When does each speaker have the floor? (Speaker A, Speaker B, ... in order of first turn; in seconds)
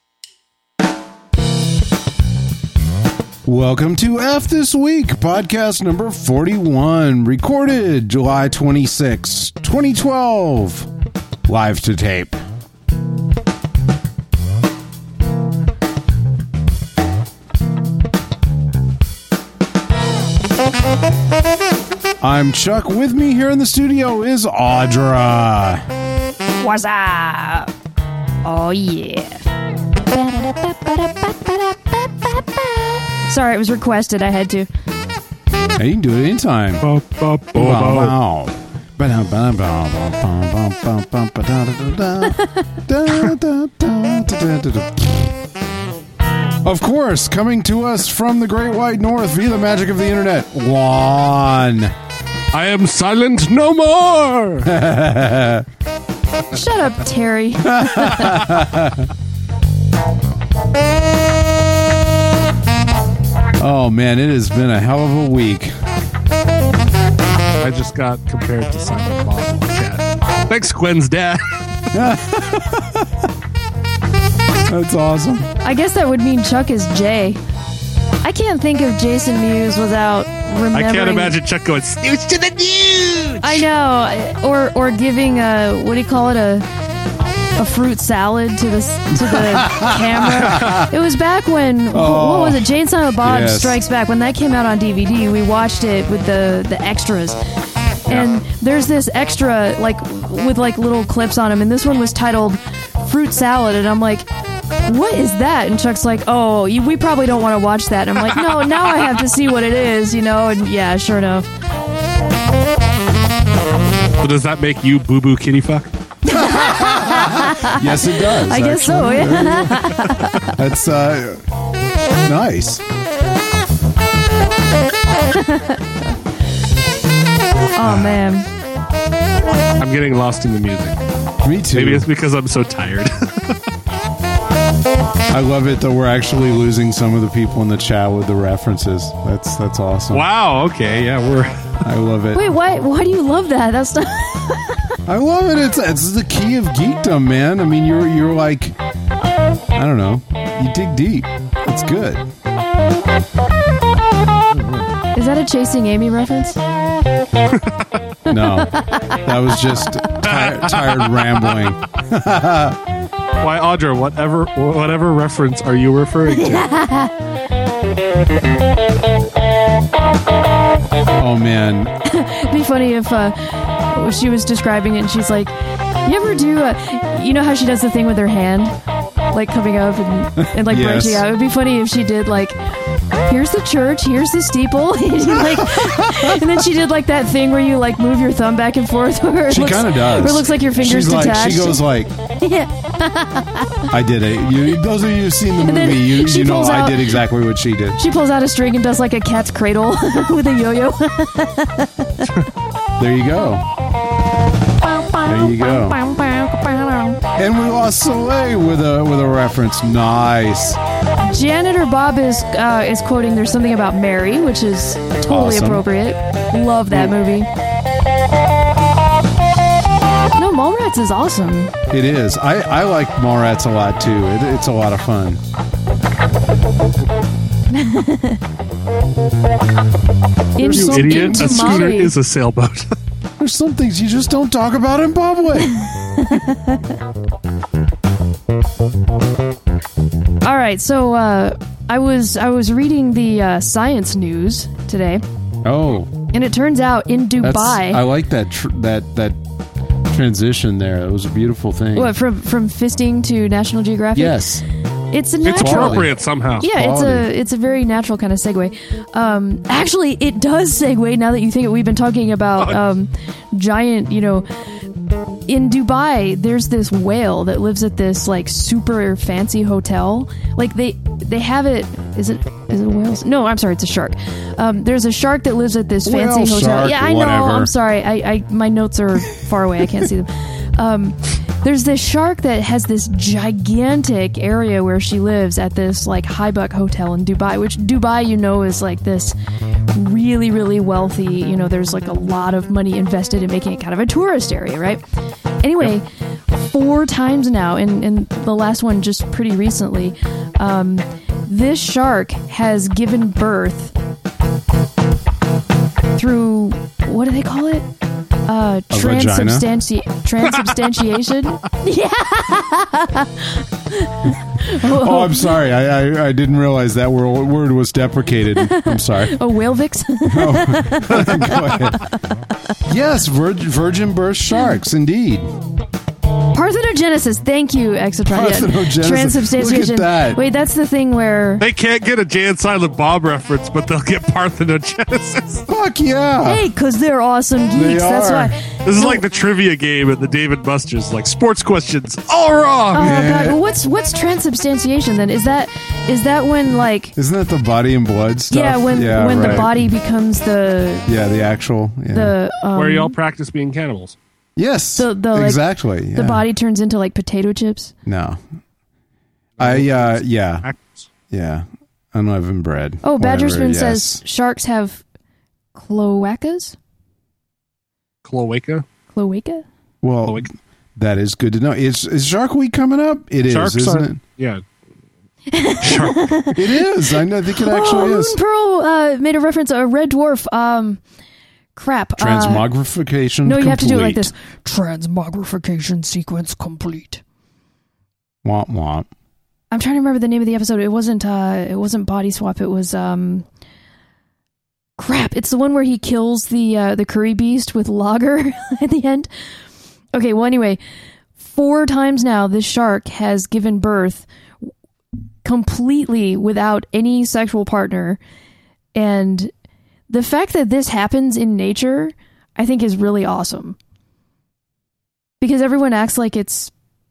Speaker A: 3.4-10.9, 11.4-12.4, 22.2-25.9, 35.8-36.9, 37.5-45.3, 46.6-51.9, 54.6-55.7, 57.6-59.1, 63.6-65.7, 71.9-73.3, 74.7-75.5, 89.2-90.9, 91.9-93.8, 116.3-121.4, 122.2-122.8, 127.8-128.2, 131.4-132.1, 135.3-140.2, 141.8-142.4, 145.1-148.8, 149.7-152.2, 158.3-162.8, 171.2-171.9, 180.4-181.2, 185.4-186.4, 189.5-192.1, 193.9-198.0, 203.0-203.7, 205.2-206.0, 207.3-210.8, 215.2-215.8, 221.9-225.4, 230.7-231.7, 233.4-235.7, 245.6-246.1, 247.4-249.4, 250.1-252.1, 254.1-254.6, 255.5-257.3, 276.0-277.7, 308.9-309.7, 314.7-319.3, 320.3-322.0, 322.9-325.5, 328.3-330.4, 335.7-336.6, 337.7-338.5, 343.0-343.6, 347.1-349.7, 351.1-352.3, 354.6-356.4, 358.0-358.4, 359.6-360.7, 361.3-364.2, 370.0-374.2, 376.5-378.4, 382.2-384.3, 388.4-389.1
Speaker B: 26.6-27.7, 28.4-29.4, 30.1-34.7, 56.5-58.5, 75.6-77.4, 78.2-81.3, 83.4-86.7, 87.6-97.4, 98.1-104.3, 104.8-111.5, 116.2-120.5, 125.3-126.1, 127.7-128.5, 142.3-144.8, 155.1-156.6, 158.3-159.2, 166.3-167.1, 172.0-175.5, 176.0-178.8, 179.3-182.6, 183.2-191.8, 192.3-193.9, 195.6-197.2, 197.9-202.4, 204.8-207.2, 211.2-217.5, 220.4-221.7, 227.7-228.4, 230.6-232.1, 235.8-236.8, 240.4-245.2, 246.3-248.0, 251.9-254.4, 255.1-264.5, 265.5-289.3, 289.9-295.0, 295.6-303.9, 306.1-307.9, 308.4-315.5, 318.6-322.1, 326.5-331.6, 336.4-339.2, 342.9-347.1, 348.5-351.1, 352.1-353.1, 354.9-355.6, 356.1-357.9, 363.0-365.0, 365.7-366.8, 369.1-369.6, 375.5-381.0, 381.7-382.7, 383.4-387.2, 389.7-393.4, 395.0-399.3, 400.1-400.8, 401.4-404.3, 405.4-408.2, 408.9-409.5, 410.1-413.8, 415.4-416.7
Speaker C: 36.8-38.1, 52.5-54.7, 67.6-71.6, 80.7-83.7, 114.2-115.9, 129.8-131.0, 131.7-133.6, 140.1-141.6, 157.5-157.8, 160.2-161.6, 163.4-166.7, 230.6-232.9, 255.4-256.6, 331.6-335.6, 338.8-343.2, 349.4-349.6, 352.7-354.1, 359.6-361.1, 368.2-368.8, 373.5-374.6, 375.8-376.3